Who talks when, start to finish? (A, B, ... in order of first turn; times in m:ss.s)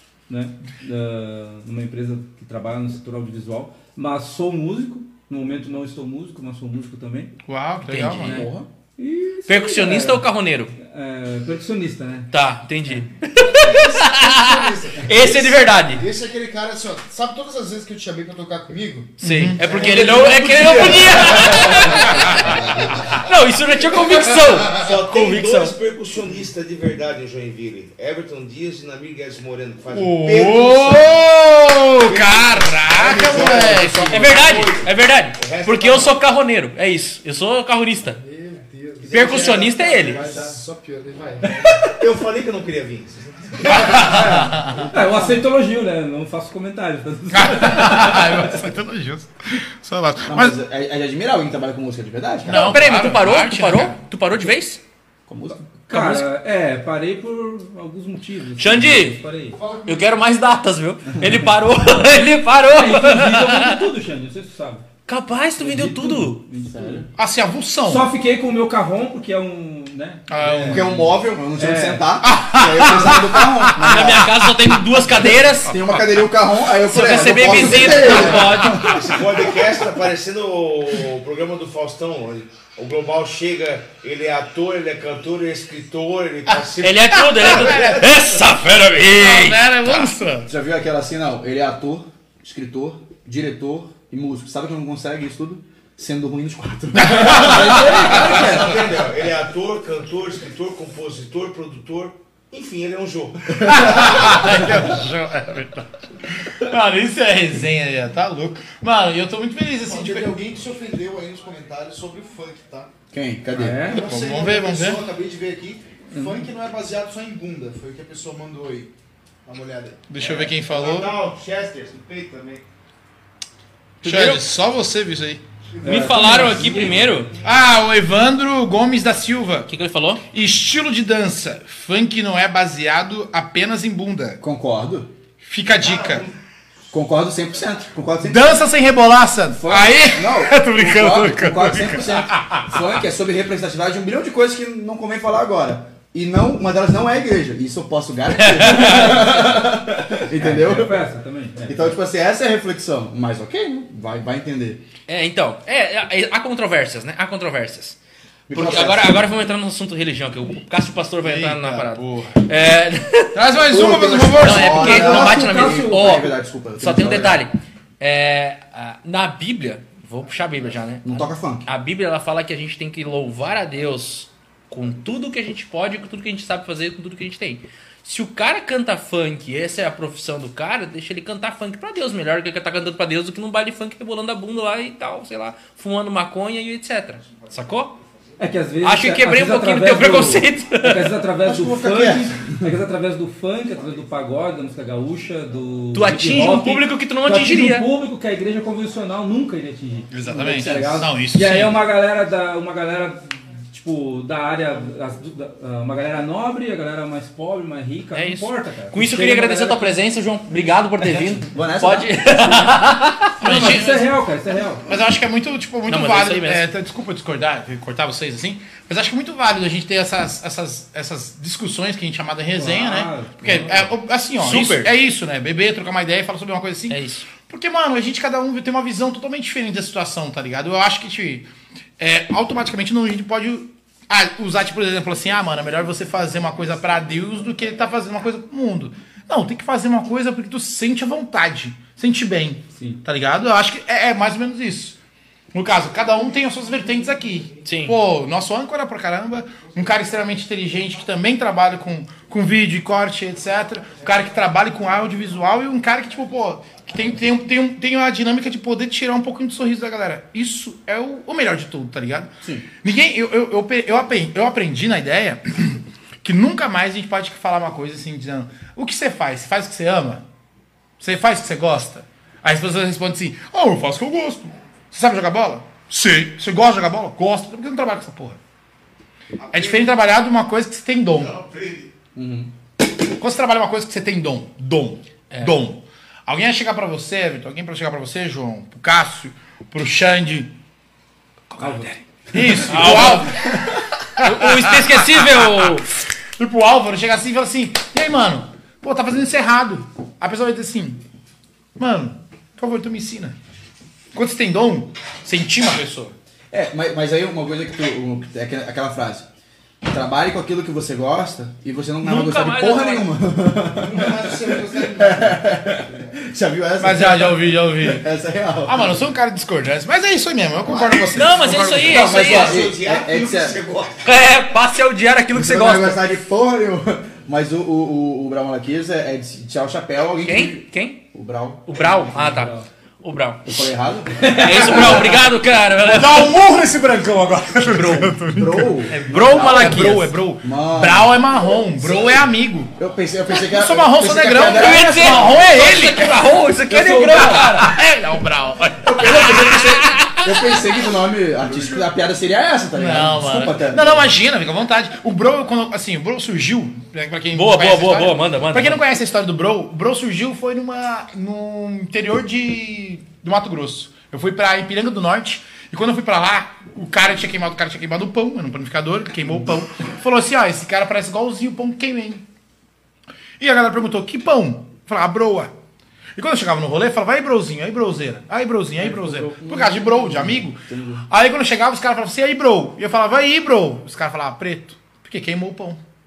0:00.3-0:07.3 A
0:07.5-0:08.4 B
0:07.8-0:08.4 C
0:08.2-0:08.7 D
0:08.2-0:10.3 A
0:09.5-0:10.8 C
0:10.8-0:12.3 A
0:12.3-0:16.0 C
0:13.4-0:19.1 E
0:19.2-0:22.6 C
0:19.2-0:21.4 B
0:19.8-0:21.4 F
0:19.9-0:23.0 E
0:22.1-0:22.6 B
0:23.2-0:25.8 C
0:24.7-0:31.2 F
0:29.9-0:34.3 B
0:32.0-0:36.2 F
0:34.0-0:38.2 C
0:38.2-0:41.5 E
0:39.0-0:40.6 F
0:39.1-0:40.2 C
0:41.4-0:44.4 F
0:43.7-0:44.9 B
0:44.0-0:44.5 D
0:44.9-0:48.5 A
0:47.3-0:50.6 B
0:50.2-0:52.9 D
0:52.5-0:54.0 B
0:52.5-0:54.8 C
0:55.3-0:55.7 D
0:55.7-0:59.6 A
0:55.9-0:56.3 C
0:58.6-0:59.2 C
0:59.6-1:00.1 E
0:59.8-1:03.8 C
1:02.6-1:04.8 A
1:05.1-1:06.4 C
1:05.6-1:07.1 A
1:06.7-1:07.1 D
1:07.2-1:08.1 B
1:07.8-1:12.1 A
1:10.3-1:11.0 B
1:10.6-1:14.3 D
1:12.2-1:14.8 B
1:13.8-1:15.7 C
1:15.6-1:19.2 D
1:16.8-1:18.8 C
1:17.5-1:19.3 B
1:18.9-1:28.0 F
1:26.8-1:30.0 C
1:27.2-1:28.1 B
1:29.2-1:30.5 B
1:30.5-1:38.9 D
1:37.0-1:38.7 B
1:37.4-1:38.4 A
1:38.0-1:44.7 F
1:43.6-1:44.0 D
1:43.7-1:45.9 B
1:46.4-1:50.4 B
1:49.8-1:52.9 E
1:53.1-1:53.8 D
1:53.5-1:54.1 A
1:53.8-1:58.9 E
1:53.9-1:55.0 B
1:56.1-1:56.5 A
1:59.4-2:00.0 E
2:00.1-2:01.2 B
2:00.2-2:02.6 F
2:04.0-2:04.4 C
2:04.0-2:05.4 B
2:05.8-2:07.3 A
2:05.8-2:07.3 C
2:05.9-2:06.1 E
2:07.4-2:09.7 B
2:09.7-2:10.2 C
2:10.3-2:14.4 B
2:14.4-2:15.1 D
2:15.4-2:16.3 B
2:15.7-2:16.3 F
2:16.9-2:18.6 D
2:18.2-2:22.8 B
2:19.6-2:31.1 D
2:28.5-2:29.1 C
2:28.9-2:29.6 A
2:30.3-2:32.0 A
2:31.6-2:34.8 D
2:35.1-2:38.0 C
2:38.5-2:39.2 D
2:38.5-2:43.4 C
2:41.2-2:42.4 B
2:43.3-2:45.3 B
2:43.6-2:47.4 D
2:44.4-3:08.0 C
2:44.8-2:46.2 A
2:51.0-2:51.7 D
3:08.4-3:30.0 A
3:08.8-3:11.2 C
3:11.4-3:12.7 D
3:15.9-3:17.9 C
3:20.1-3:21.9 B
3:20.3-3:21.1 D
3:28.1-3:33.5 C
3:31.5-3:32.2 D
3:33.4-3:34.1 B
3:33.4-3:34.8 A
3:34.9-4:05.0 B
3:35.9-3:36.6 C
3:42.5-3:43.9 A
3:44.4-3:44.9 C
3:46.9-3:47.3 C
4:02.8-4:03.0 A
4:05.5-4:30.2 B
4:07.6-4:08.0 C
4:22.4-4:22.7 D
4:31.0-4:38.4 B
4:39.4-4:40.0 F
4:39.5-4:41.4 B
4:41.1-4:41.9 F
4:42.2-4:42.5 D
4:43.1-4:50.5 B
4:45.3-4:45.6 C
4:51.5-4:55.8 B
4:51.6-4:51.9 A
4:52.5-4:53.2 A
4:52.7-4:53.3 C
4:54.2-4:55.9 C
4:56.4-5:01.0 B
5:01.8-5:03.4 B
5:04.1-5:06.2 B
5:06.5-5:09.3 D
5:09.8-5:19.0 D
5:12.0-5:13.1 C
5:13.7-5:16.2 E
5:16.8-5:18.1 B
5:18.6-5:22.1 B
5:20.7-5:21.0 F
5:21.1-5:22.6 C
5:21.8-5:23.6 D
5:22.0-5:24.1 F
5:24.0-5:26.0 C
5:25.3-5:32.0 D
5:30.2-5:31.0 C
5:31.7-5:33.7 C
5:32.0-5:32.7 A
5:33.5-5:35.1 D
5:34.2-5:35.1 A
5:34.2-5:36.4 C
5:35.8-5:42.7 B
5:37.7-5:38.1 C
5:38.3-5:41.2 D
5:38.9-5:40.1 C
5:42.8-5:45.5 D
5:43.3-5:46.2 B
5:44.5-5:47.7 C
5:46.7-5:47.6 A
5:47.1-5:50.2 B
5:48.8-5:54.2 D
5:52.8-6:12.2 B
5:57.3-5:58.8 C
6:13.4-6:15.5 B
6:16.2-6:25.8 B
6:18.8-6:21.1 D
6:19.0-6:19.3 A